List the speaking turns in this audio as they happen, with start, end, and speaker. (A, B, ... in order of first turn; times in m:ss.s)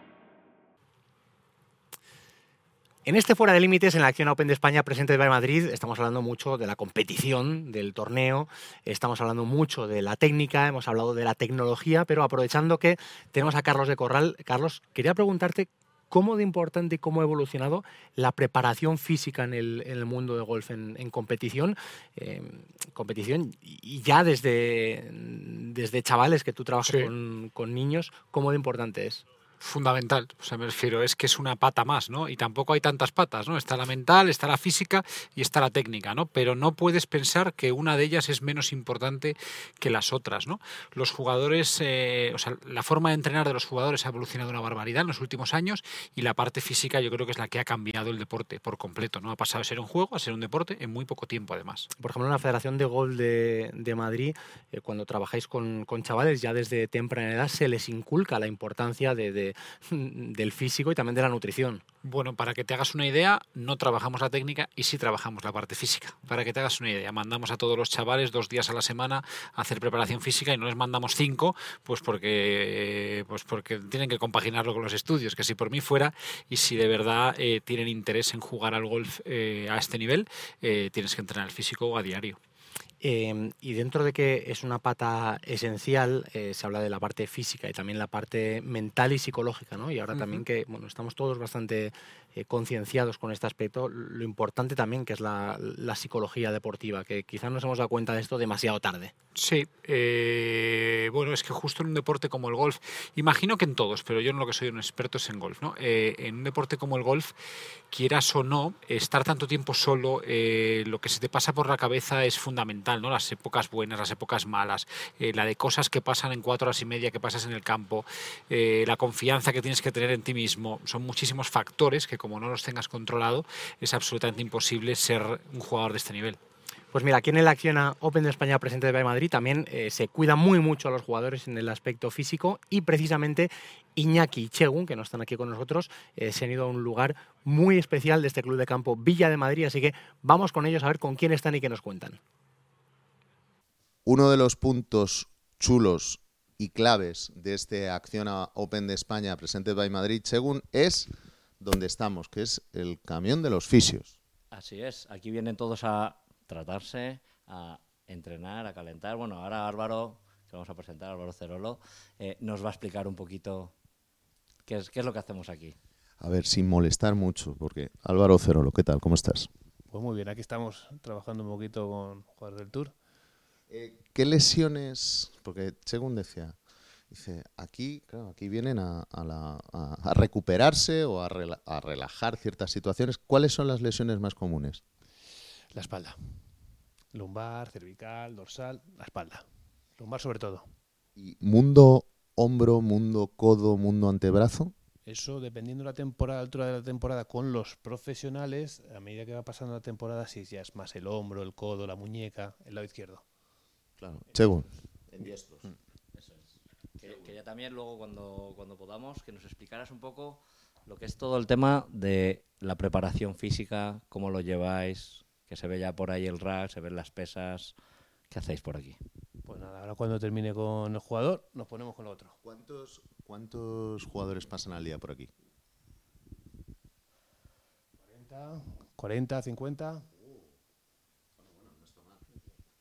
0:03.0-0:29.2 A
0:26.8-0:27.1 B
0:29.6-0:51.9 B
0:52.0-1:01.8 A
1:02.0-1:22.4 B
1:23.0-1:39.1 A
1:30.1-1:30.4 B
1:39.4-1:47.3 B
1:47.9-2:06.4 B
2:06.9-2:22.2 A
2:24.0-2:34.2 C
2:34.5-2:43.7 D
2:44.6-2:45.8 D
2:46.2-2:49.5 C
2:49.9-2:52.9 E
2:53.7-2:56.6 C
2:57.1-3:04.8 C
3:05.7-3:06.4 E
3:07.1-3:09.4 E
3:10.0-3:10.7 E
3:11.2-3:14.7 C
3:15.0-3:23.2 E
3:24.0-3:25.7 C
3:26.1-3:37.8 D
3:27.0-3:27.3 C
3:38.3-3:39.0 D
3:39.4-3:42.4 E
3:42.4-3:45.3 C
3:48.0-3:50.0 E
3:50.1-3:50.6 C
3:51.4-3:52.3 C